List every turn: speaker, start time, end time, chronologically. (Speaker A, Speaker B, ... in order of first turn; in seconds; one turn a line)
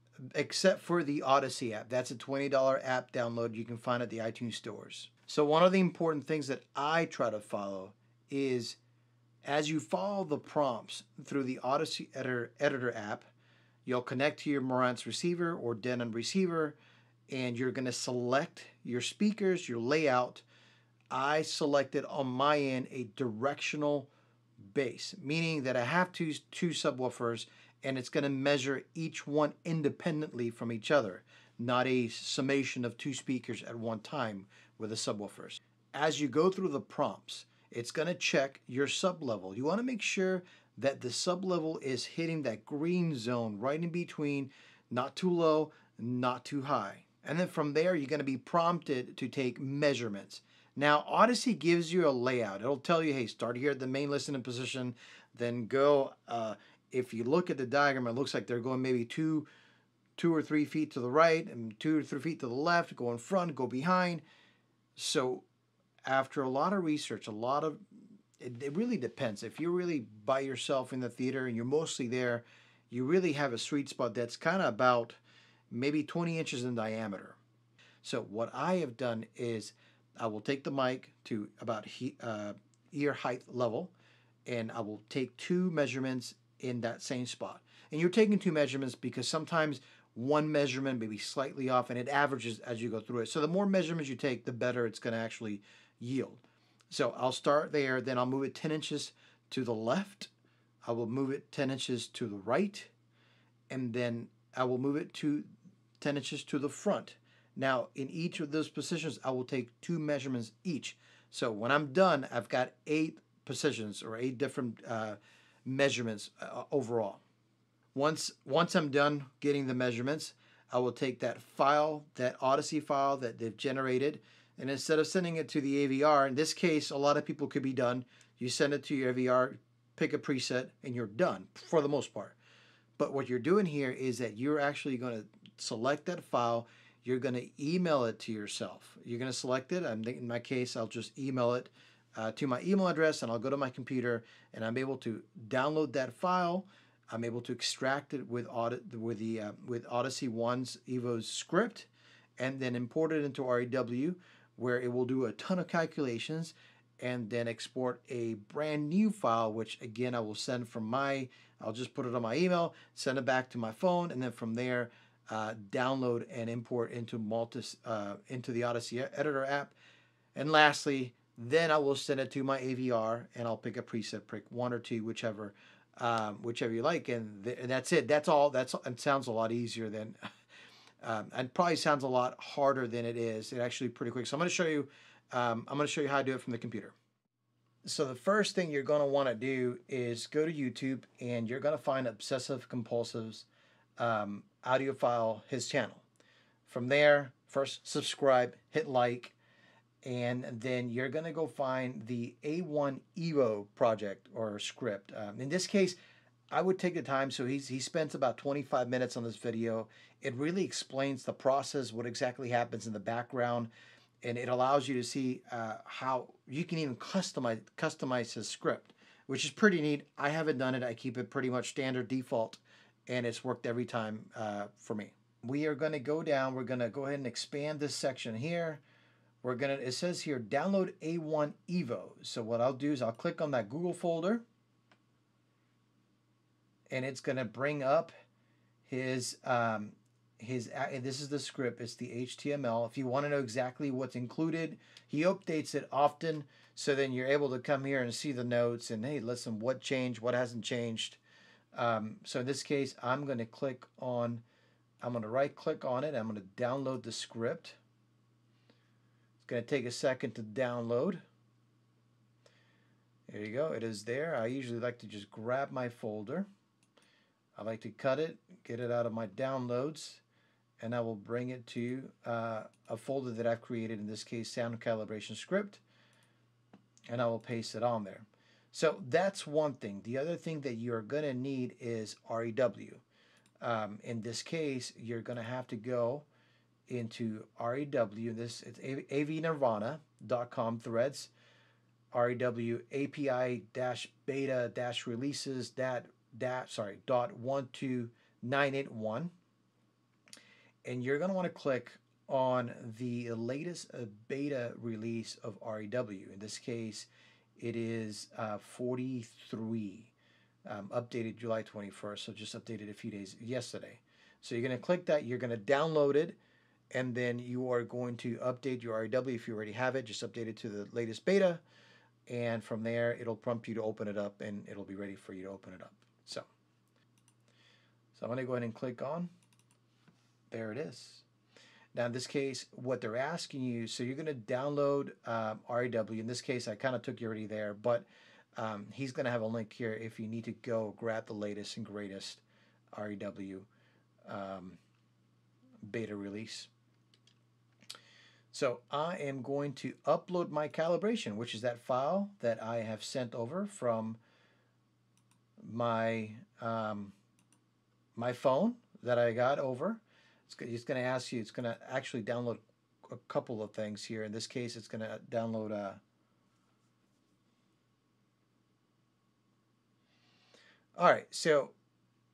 Speaker A: 0.3-8.8
Speaker A: 9.4-13.3
Speaker A: 13.8-16.8
Speaker A: 17.3-20.4
Speaker A: 21.1-24.1
Speaker A: 24.6-59.5
Speaker A: 60.2-64.2
Speaker A: 65.0-65.4
Speaker A: 66.0-67.8
Speaker A: 68.4-75.2
Speaker A: 75.7-77.4
Speaker A: 78.0-83.9
Speaker A: 84.5-100.3
Speaker A: 100.8-102.9
Speaker A: 103.7-105.5
Speaker A: 106.0-117.2
Speaker A: 117.9-132.4
Speaker A: 133.0-169.7
Speaker A: 170.3-180.2
Speaker A: 181.0-186.9
Speaker A: 187.8-193.4
Speaker A: 194.0-196.0
Speaker A: 196.7-199.3
Speaker A: 200.0-205.9
Speaker A: 206.5-213.7
Speaker A: 214.2-228.8
Speaker A: 229.4-234.4
Speaker A: 236.9-238.1
Speaker A: 238.8-251.2
Speaker A: 251.7-254.4
Speaker A: 255.0-257.8
Speaker A: 259.4-261.2
Speaker A: 263.3-266.5
Speaker A: 267.6-270.2
Speaker A: 270.8-275.8
Speaker A: 277.1-283.0
Speaker A: 283.6-286.2
Speaker A: 286.9-291.3
Speaker A: 292.1-299.3
Speaker A: 300.8-310.1
Speaker A: 310.6-316.4
Speaker A: 316.9-321.6
Speaker A: 322.3-326.5
Speaker A: 328.1-329.3
Speaker A: 330.5-331.2
Speaker A: 331.9-342.4
Speaker A: 342.9-343.7
Speaker A: 344.2-344.8
Speaker A: 345.8-346.7
Speaker A: 348.5-354.2
Speaker A: 355.6-357.1
Speaker A: 358.1-366.0
Speaker A: 370.9-371.7